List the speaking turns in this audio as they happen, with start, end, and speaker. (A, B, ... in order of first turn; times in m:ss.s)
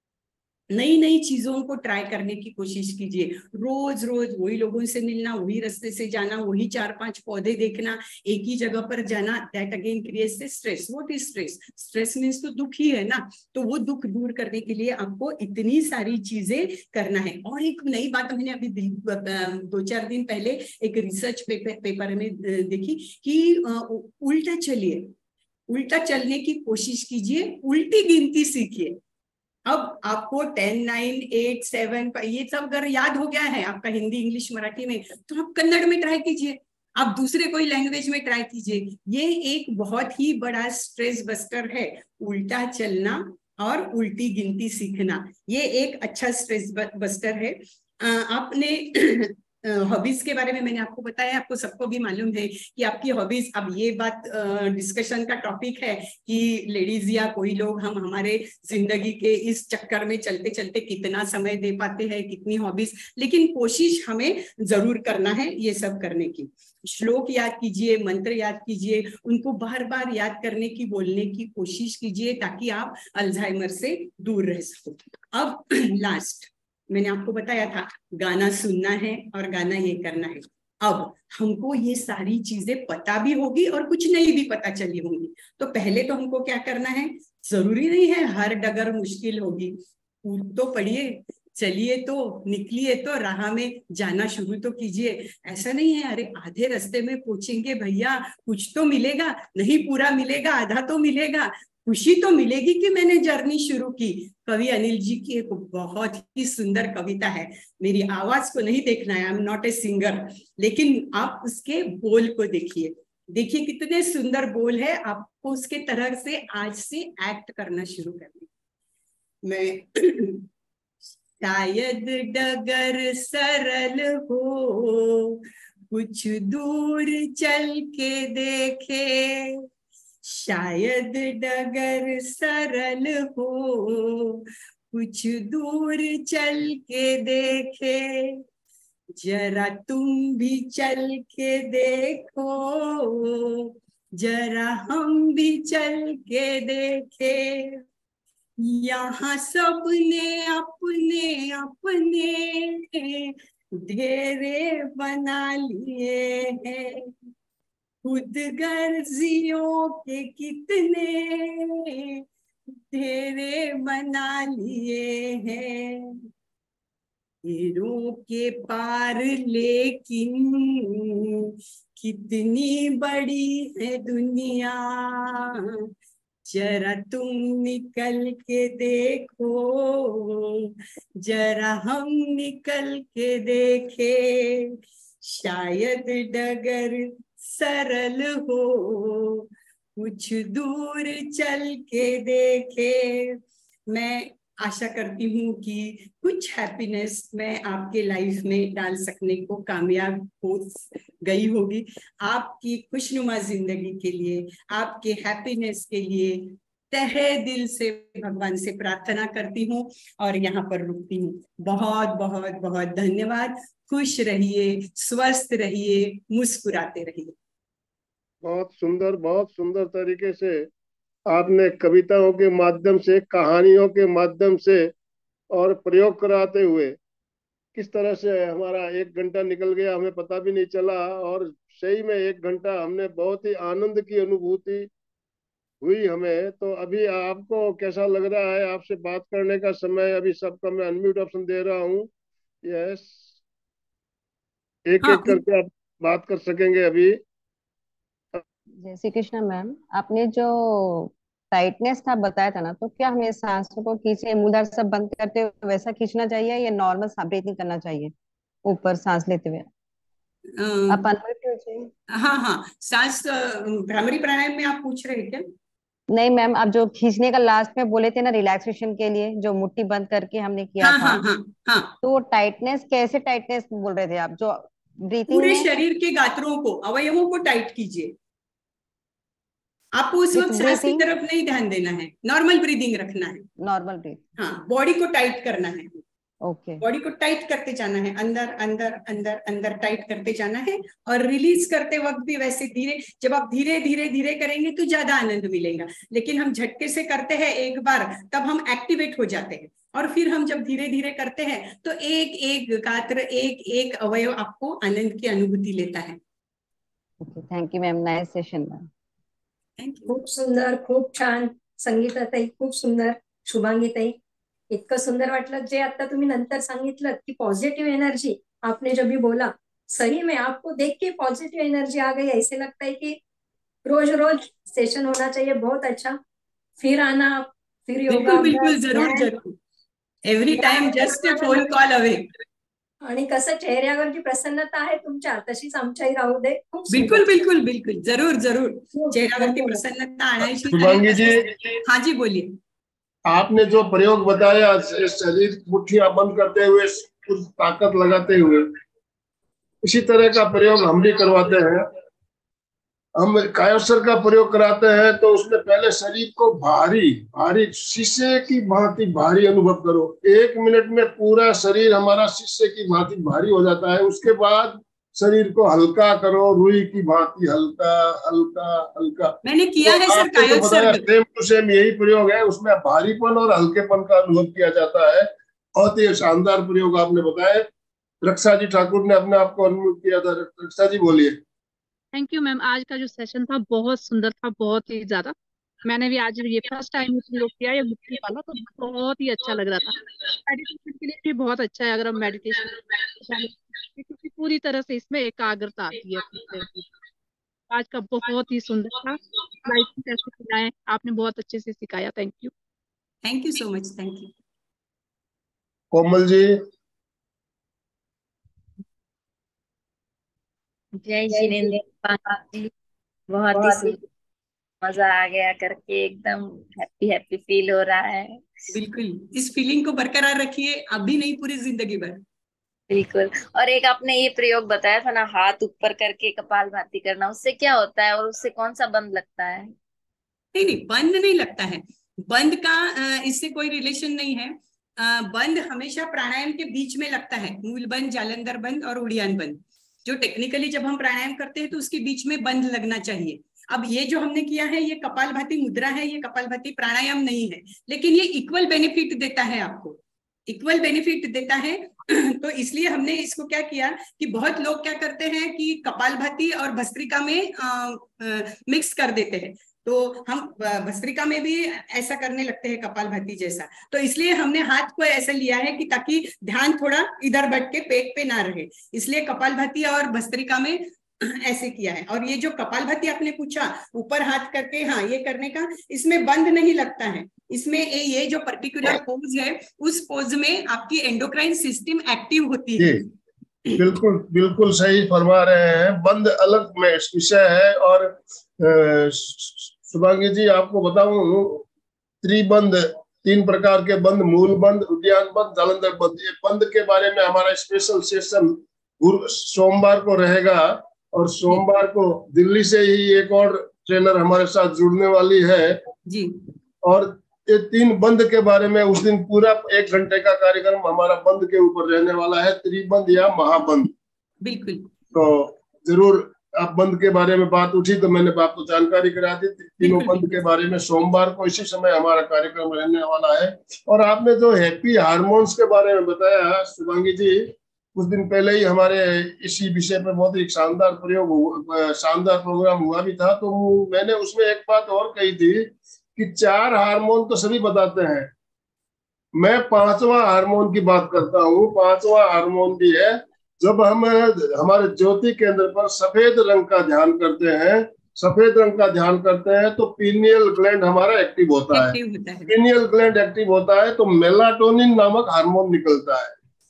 0:00.7-0:25.1 A
0:25.7-0:29.0 A
0:29.7-1:58.5 A
1:59.4-2:00.5 A
2:01.4-2:09.6 A
2:10.2-2:18.4 A
2:19.2-2:27.8 A
2:28.6-2:37.1 A
2:38.0-2:42.2 A
2:42.9-2:46.2 A
2:47.4-2:51.3 A
2:52.0-2:55.5 A
2:56.5-3:04.7 A
3:05.2-3:09.4 A
3:10.0-3:13.4 A
3:13.9-3:37.3 A
3:38.4-3:40.7 B
3:41.3-3:44.9 B
3:45.5-3:47.0 B
3:47.7-3:54.9 B
3:55.8-4:02.1 B
4:02.6-4:03.2 B
4:04.9-4:07.2 B
4:05.0-4:05.4 A
4:08.8-4:18.1 C
4:18.6-4:19.6 C
4:20.6-4:21.0 A
4:20.9-4:21.9 C
4:22.1-4:25.4 A
4:26.1-4:31.2 C
4:30.8-4:31.9 A
4:32.0-4:35.7 C
4:35.3-4:38.1 A
4:40.0-4:43.4 A
4:40.3-4:41.0 C
4:43.6-4:44.2 C
4:44.4-4:46.0 A
4:46.5-4:46.8 C
4:46.8-5:06.2 A
5:07.2-5:08.9 C
5:09.8-5:10.2 A
5:10.1-5:14.2 D
5:14.7-5:23.2 D
5:23.8-5:26.2 D
5:26.8-5:29.3 D
5:28.1-5:29.5 A
5:30.2-5:32.3 A
5:30.6-5:31.7 D
5:33.0-5:37.3 D
5:36.9-5:42.6 A
5:38.9-5:39.8 D
5:40.7-5:41.8 B
5:43.3-5:48.7 B
5:49.8-5:51.8 B
5:53.2-6:17.7 B
6:09.4-6:11.0 A
6:18.2-6:21.4 B
6:22.1-6:36.9 E
6:37.7-6:42.5 E
6:43.2-6:44.3 A
6:45.9-6:46.6 B
6:50.9-6:52.7 F
6:53.3-6:54.0 F
6:54.8-6:58.5 F
6:58.7-7:02.2 A
7:02.9-7:09.7 F
7:10.5-8:03.1 A
8:02.8-8:03.0 B
8:03.8-8:11.6 B
8:12.2-8:25.8 B
8:26.0-8:26.4 A
8:26.8-8:33.9 B
8:34.4-8:34.9 A
8:35.1-8:58.3 B
8:39.8-8:40.4 A
8:59.4-9:12.0 B
9:11.7-9:12.5 A
9:12.5-9:16.3 B